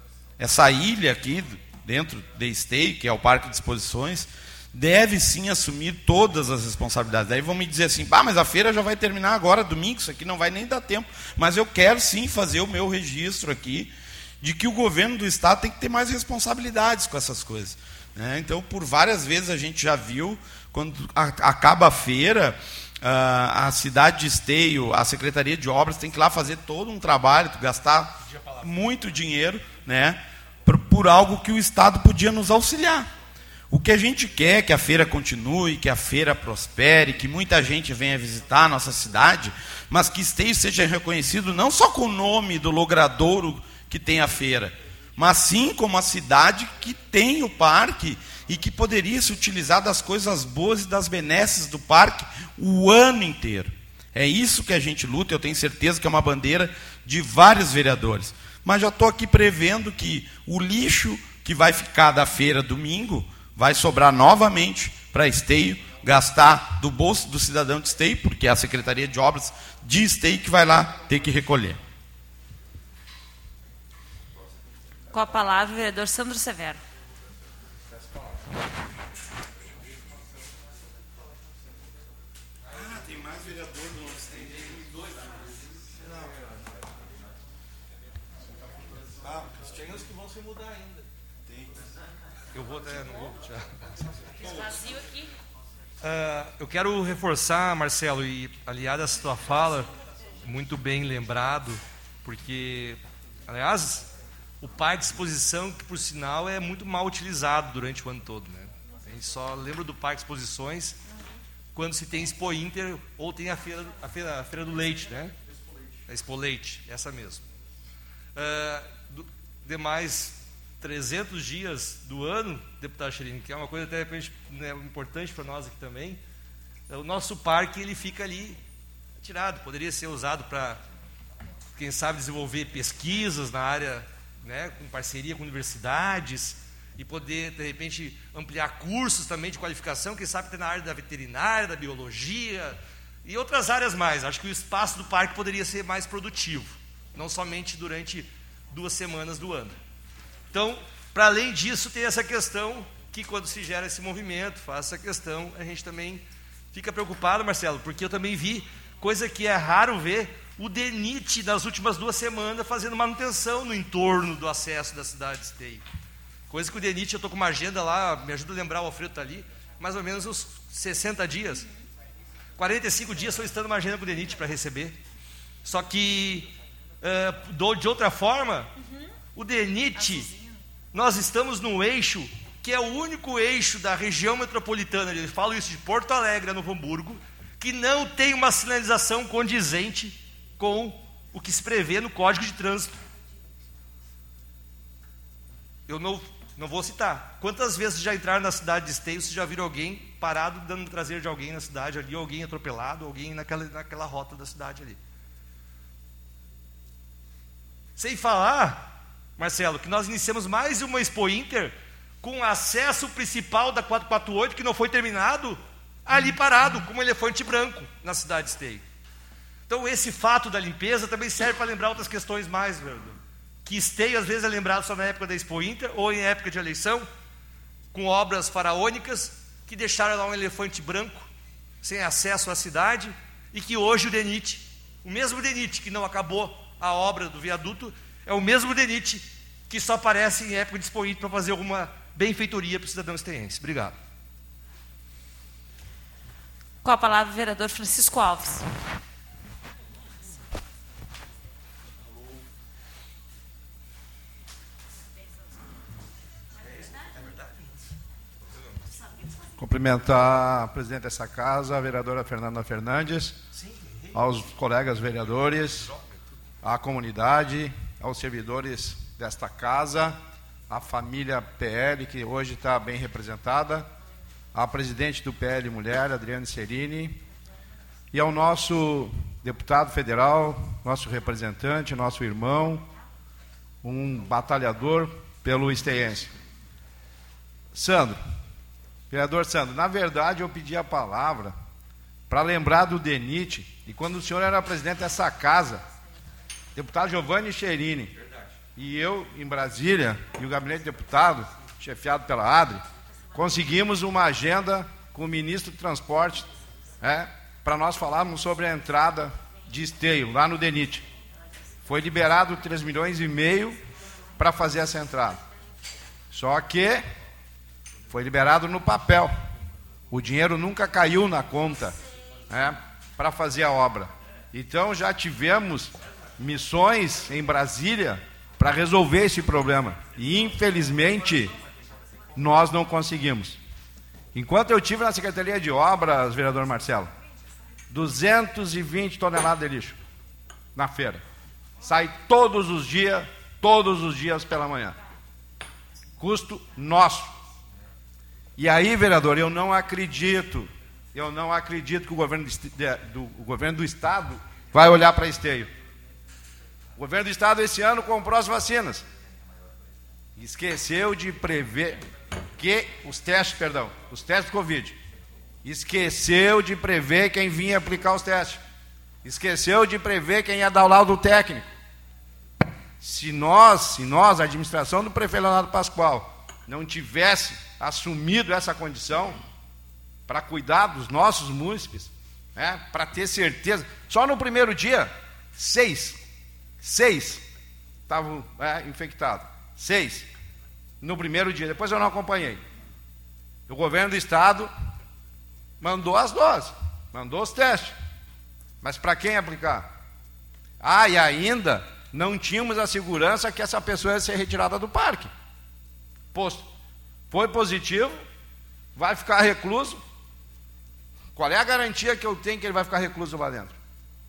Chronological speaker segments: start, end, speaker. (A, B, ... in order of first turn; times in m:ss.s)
0:00.4-0:33.1 A
0:28.3-0:28.6 B
0:33.7-1:11.8 A
1:15.1-1:16.8 C
1:32.5-1:33.7 B
1:34.4-1:35.3 C
1:36.0-1:44.1 B
1:44.6-1:51.0 B
1:51.7-1:55.3 B
1:56.1-1:57.4 B
1:58.3-2:06.2 B
2:06.9-2:08.6 B
2:09.2-2:10.8 B
2:11.7-2:29.8 B
2:30.5-2:45.8 B
2:46.5-2:51.7 B
2:52.6-2:55.0 B
2:55.6-2:58.7 B
2:58.8-2:59.1 C
2:59.3-3:00.3 B
2:59.9-3:00.6 C
3:00.9-3:13.0 B
3:15.9-3:25.0 B
3:28.0-3:38.8 B
3:39.7-3:47.1 B
3:47.9-3:51.3 B
3:51.8-4:04.0 B
4:06.8-4:08.6 C
4:16.9-4:17.6 B
4:18.5-4:18.9 B
4:19.6-4:23.4 D
4:23.5-4:24.2 B
4:24.1-4:25.9 D
4:25.5-4:26.2 B
4:26.6-4:30.2 D
4:30.7-4:33.9 D
4:34.5-4:37.2 D
4:38.1-4:42.9 D
4:43.8-4:46.3 D
4:47.7-4:48.2 D
4:49.1-4:51.5 D
4:52.3-4:55.8 D
4:56.8-4:58.1 D
4:58.8-5:02.8 D
5:03.3-5:11.1 D
5:11.9-5:13.8 D
5:14.4-5:15.4 D
5:16.3-5:17.0 D
5:18.1-5:19.3 D
5:20.1-5:22.0 D
5:22.5-5:31.5 D
5:32.3-5:33.6 D
5:34.3-5:37.1 D
5:37.9-5:40.0 D
5:40.7-5:41.2 D
5:41.8-5:45.0 D
5:46.2-5:47.3 D
5:48.6-5:55.7 D
5:57.0-5:59.0 D
6:00.4-6:02.0 D
6:02.6-6:05.0 D
6:05.6-6:08.6 D
6:09.2-6:11.7 D
6:13.0-6:19.4 D
6:20.3-6:26.2 D
6:26.8-6:27.4 D
6:28.1-6:30.3 D
6:31.0-6:32.6 D
6:33.7-6:34.7 D
6:35.8-6:38.0 D
6:38.8-6:39.9 D
6:40.8-6:45.3 D
6:46.3-6:46.7 D
6:47.3-6:48.2 D
6:49.0-6:50.0 D
6:51.3-6:53.8 D